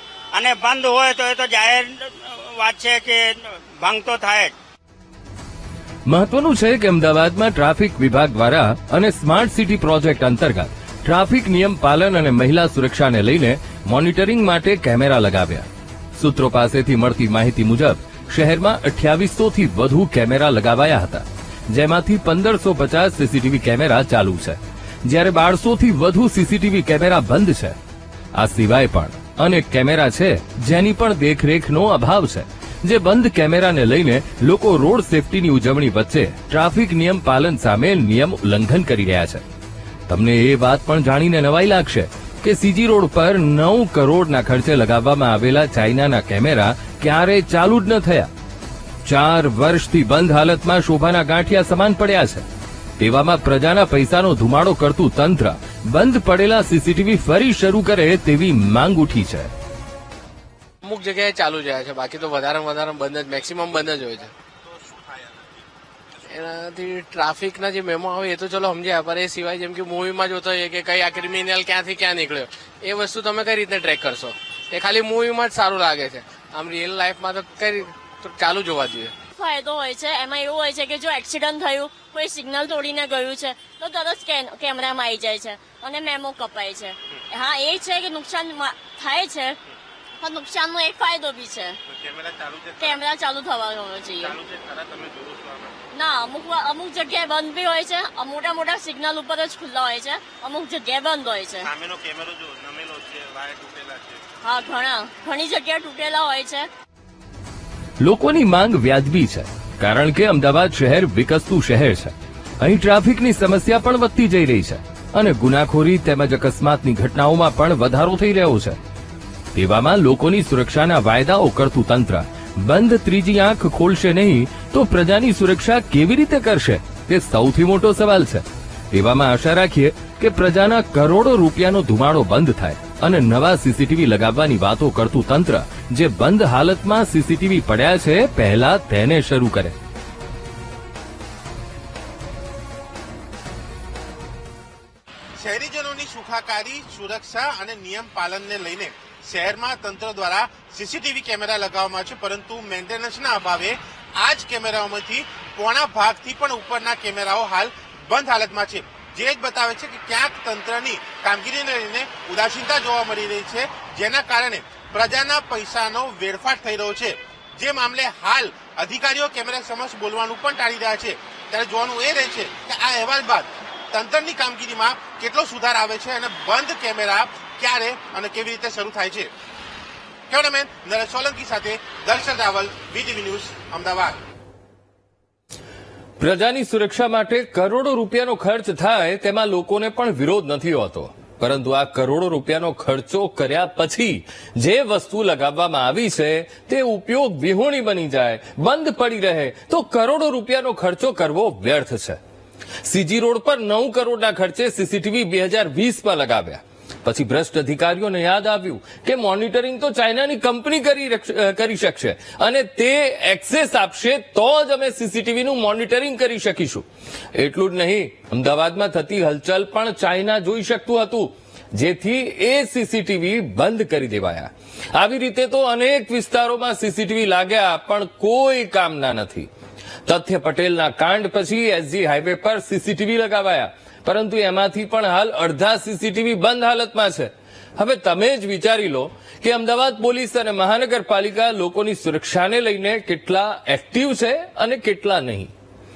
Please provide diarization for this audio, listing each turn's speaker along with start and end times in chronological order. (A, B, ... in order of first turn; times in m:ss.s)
0:00.3-0:04.5 A
0:06.1-0:27.8 B
0:28.3-0:39.4 B
0:40.1-0:48.3 B
0:49.0-0:52.4 B
0:53.0-0:59.5 B
1:00.8-1:04.3 C
1:04.7-1:05.2 D
1:06.2-1:19.1 C
1:19.4-1:29.6 E
1:30.2-1:31.8 E
1:31.9-1:33.0 D
1:32.8-1:34.4 E
1:34.2-1:35.8 D
1:35.9-1:41.7 E
1:41.6-1:44.2 D
1:44.4-1:46.7 E
1:48.0-1:58.8 B
1:59.5-2:19.8 B
2:25.4-2:59.3 D
3:00.3-3:04.2 D
3:06.2-3:22.2 B
3:22.8-3:49.5 B
3:50.0-4:05.5 B